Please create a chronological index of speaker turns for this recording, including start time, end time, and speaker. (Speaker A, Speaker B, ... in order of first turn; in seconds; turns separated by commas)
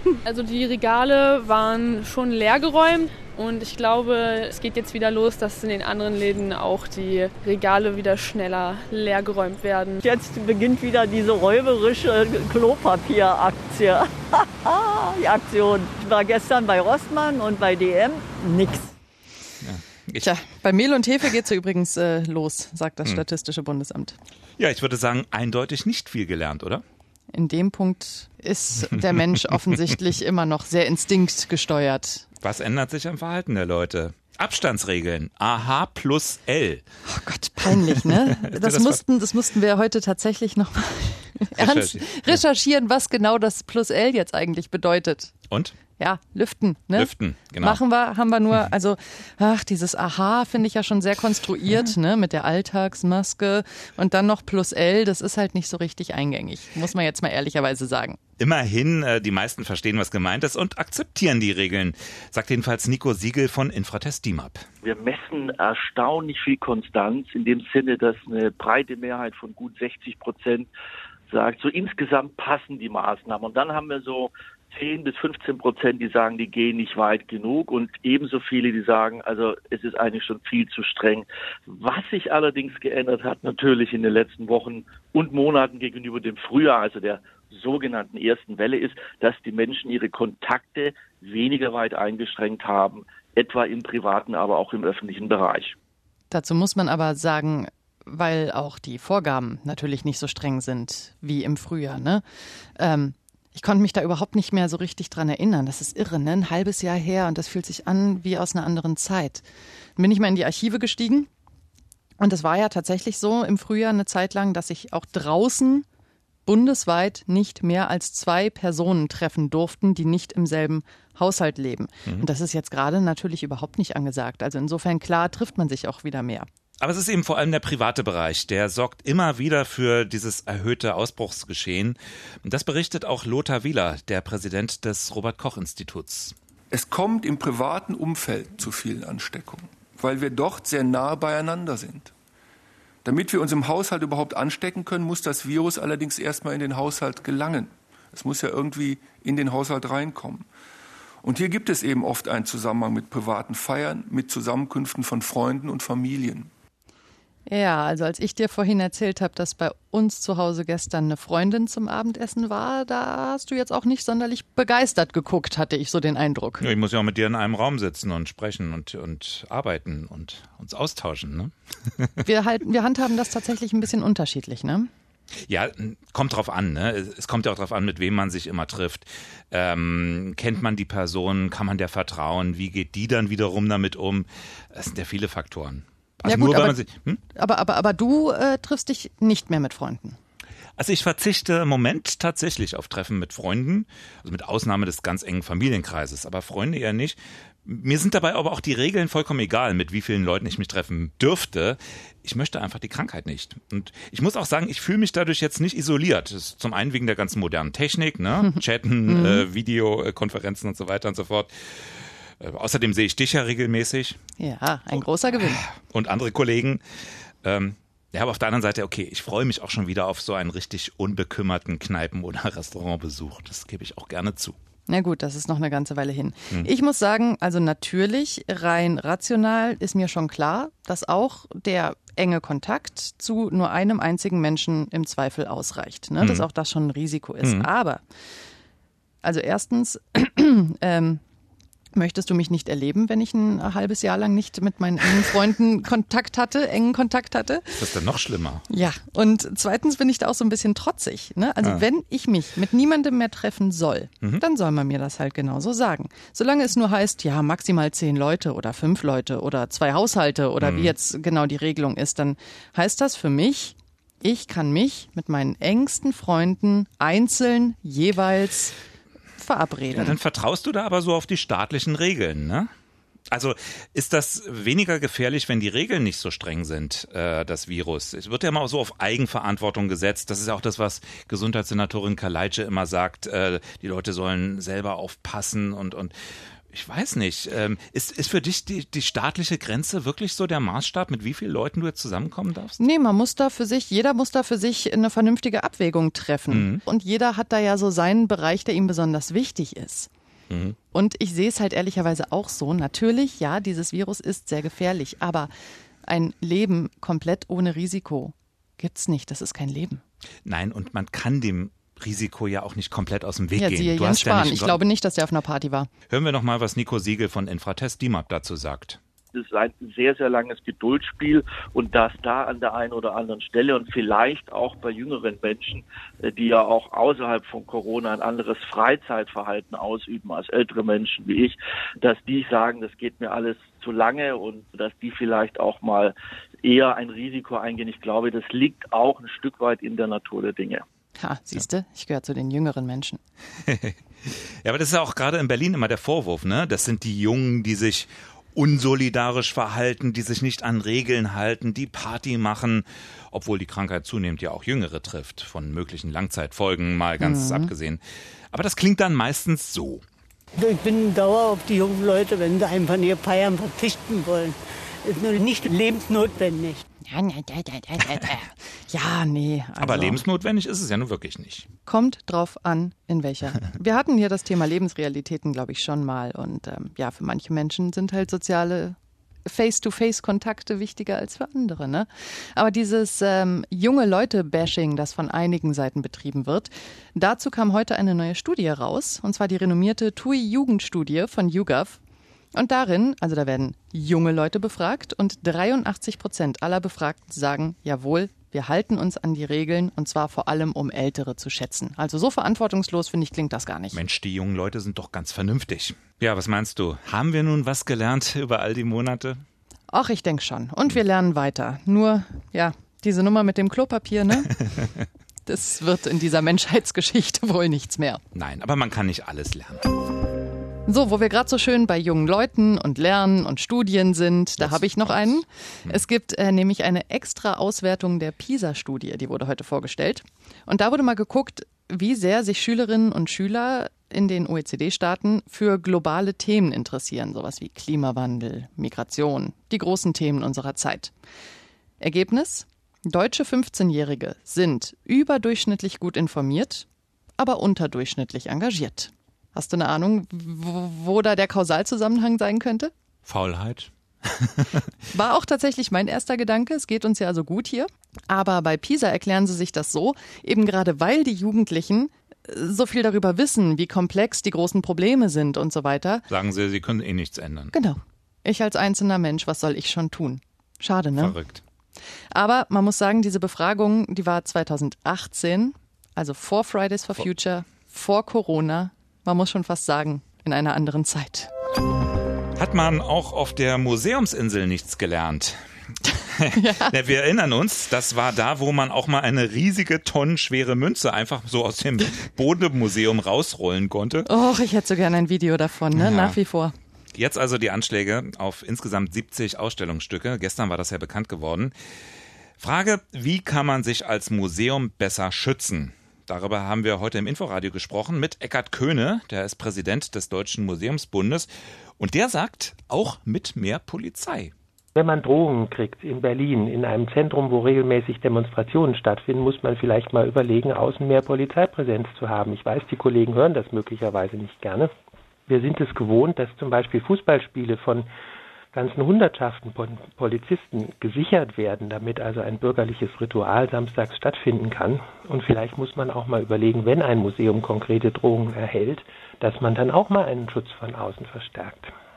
Speaker A: 0.2-10.0, Speaker B: 10.0-18.9, Speaker C: 19.6-20.2, Speaker D: 20.2-24.1, Speaker C: 24.6-26.8, Speaker D: 27.3-32.2, Speaker C: 32.4-36.8, Speaker D: 37.0-45.3, Speaker C: 38.4-39.0, Speaker C: 41.5-42.4, Speaker C: 45.5-45.8, Speaker D: 46.0-58.2, Speaker C: 46.9-47.8, Speaker C: 58.4-64.6, Speaker E: 64.8-70.7, Speaker E: 71.3-95.7, Speaker D: 96.3-102.2, Speaker D: 102.8-109.4, Speaker D: 110.0-111.3, Speaker D: 112.2-115.8, Speaker D: 116.5-126.5, Speaker C: 126.8-136.3, Speaker F: 136.7-142.1, Speaker F: 143.0-150.5, Speaker F: 151.2-156.5, Speaker D: 157.5-166.6, Speaker C: 166.6-172.2, Speaker D: 172.2-174.9, Speaker C: 175.5-187.2, Speaker D: 186.2-186.8, Speaker D: 187.3-190.2, Speaker C: 190.8-214.2, Speaker D: 209.1-209.4, Speaker D: 214.4-215.6, Speaker C: 215.5-216.8, Speaker C: 217.4-224.6, Speaker D: 224.9-238.0, Speaker C: 236.2-236.4, Speaker C: 237.4-237.7, Speaker D: 239.2-241.2, Speaker D: 241.9-247.9, Speaker C: 247.8-248.6, Speaker D: 248.7-268.7, Speaker C: 260.6-260.9, Speaker D: 269.4-270.2, Speaker C: 269.9-272.7, Speaker C: 273.3-286.1, Speaker C: 286.7-292.8, Speaker D: 292.8-300.1, Speaker C: 296.5-296.8, Speaker C: 300.5-300.8, Speaker D: 300.9-305.5, Speaker D: 306.1-310.0, Speaker C: 310.4-314.8, Speaker D: 313.5-315.9, Speaker C: 316.1-319.0, Speaker E: 319.3-340.8, Speaker D: 341.2-343.2, Speaker C: 343.7-360.0, Speaker D: 357.2-357.7, Speaker G: 360.5-366.8, Speaker D: 367.1-370.2, Speaker C: 369.8-371.7, Speaker D: 371.9-392.0, Speaker D: 392.5-404.0, Speaker C: 403.9-409.4, Speaker D: 409.9-414.5, Speaker D: 415.4-418.2, Speaker C: 418.3-419.9, Speaker D: 420.9-441.1, Speaker C: 424.6-425.3, Speaker D: 442.0-446.9, Speaker D: 447.4-452.9, Speaker C: 453.2-454.9, Speaker D: 455.1-466.3, Speaker C: 466.3-467.7, Speaker D: 467.7-471.4, Speaker C: 471.2-471.6, Speaker D: 472.3-481.5, Speaker C: 482.6-494.3, Speaker D: 486.5-486.9, Speaker D: 494.3-496.7, Speaker C: 495.9-496.4, Speaker C: 497.1-501.7, Speaker C: 502.6-514.5, Speaker H: 515.0-524.9, Speaker H: 525.5-528.1, Speaker H: 528.7-541.9